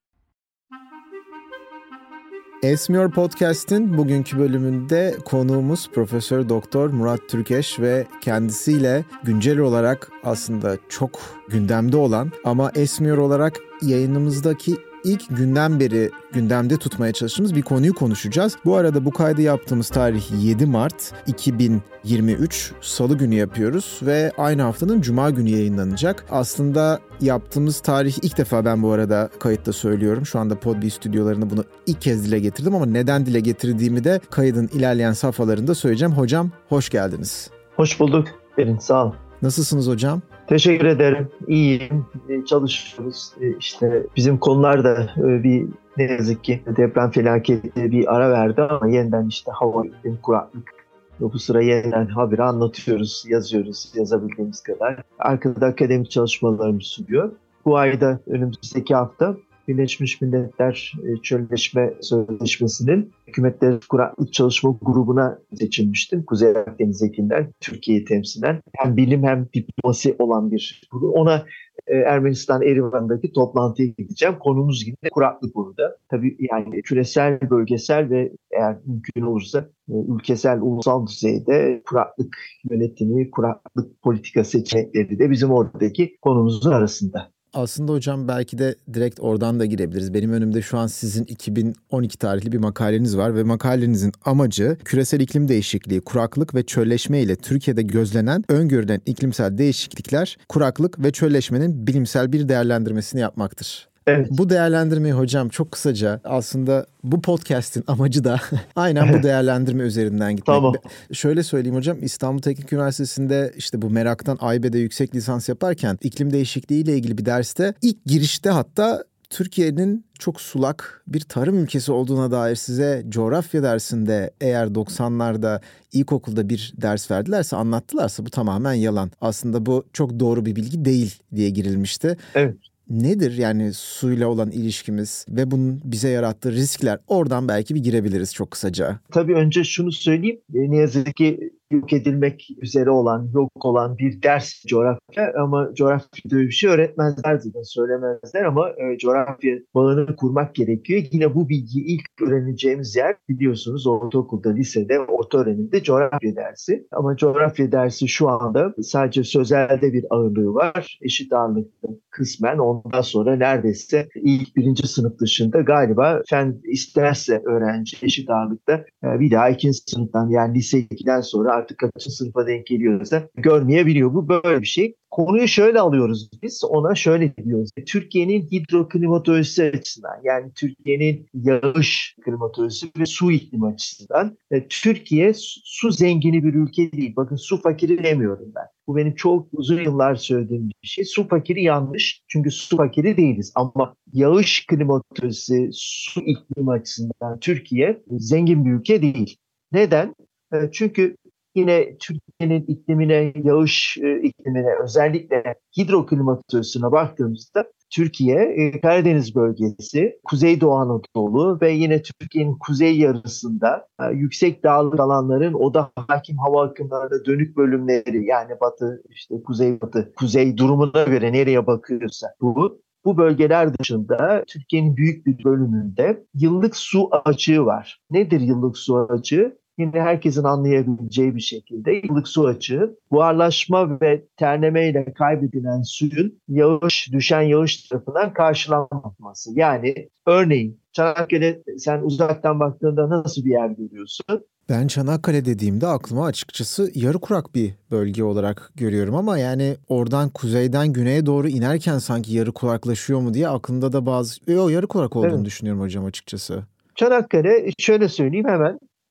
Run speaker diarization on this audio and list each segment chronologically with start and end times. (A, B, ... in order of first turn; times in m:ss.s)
0:02.6-0:37.5 A
0:37.8-0:39.2 B
0:39.4-0:40.2 A
0:40.5-0:50.7 B
0:51.2-1:27.2 B
1:27.5-2:12.2 A
1:44.1-1:44.3 B
1:50.4-1:50.8 B
2:12.9-2:19.0 A
2:19.1-4:04.4 B
4:04.7-4:16.7 A
4:15.2-4:15.4 B
4:17.0-4:18.8 B